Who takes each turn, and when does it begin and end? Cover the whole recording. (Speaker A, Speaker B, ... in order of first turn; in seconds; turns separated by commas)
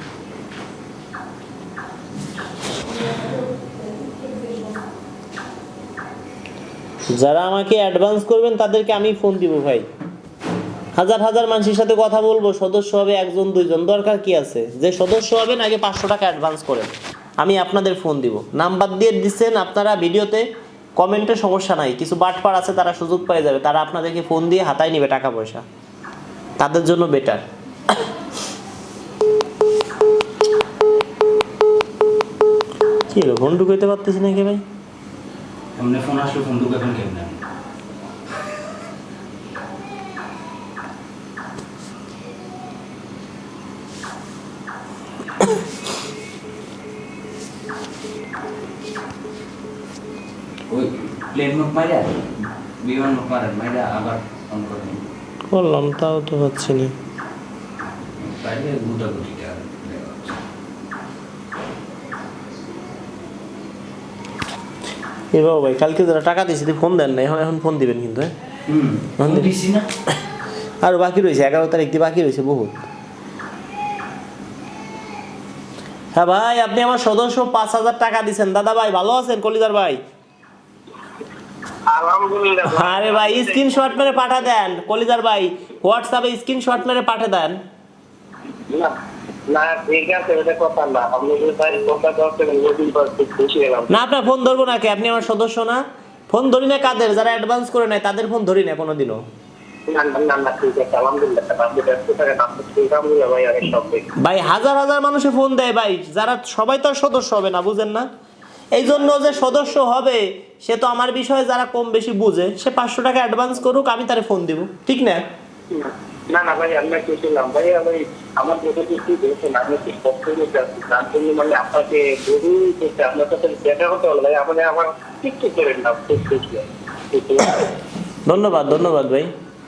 Speaker A: 7.1-9.8, Speaker A: 11.0-20.4, Speaker A: 21.0-25.6, Speaker A: 26.6-27.4, Speaker A: 33.1-34.6, Speaker B: 35.8-37.4, Speaker B: 50.7-55.0, Speaker A: 55.5-56.9, Speaker B: 58.2-60.4, Speaker A: 65.3-68.3, Speaker B: 68.7-69.9, Speaker A: 69.2-69.5, Speaker A: 70.8-72.7, Speaker A: 76.1-80.0, Speaker C: 81.9-84.1, Speaker A: 82.6-87.6, Speaker C: 89.5-93.9, Speaker A: 93.9-99.2, Speaker C: 99.9-104.0, Speaker A: 104.2-108.1, Speaker A: 108.7-115.2, Speaker C: 108.9-109.4, Speaker C: 115.7-127.7, Speaker A: 128.2-129.3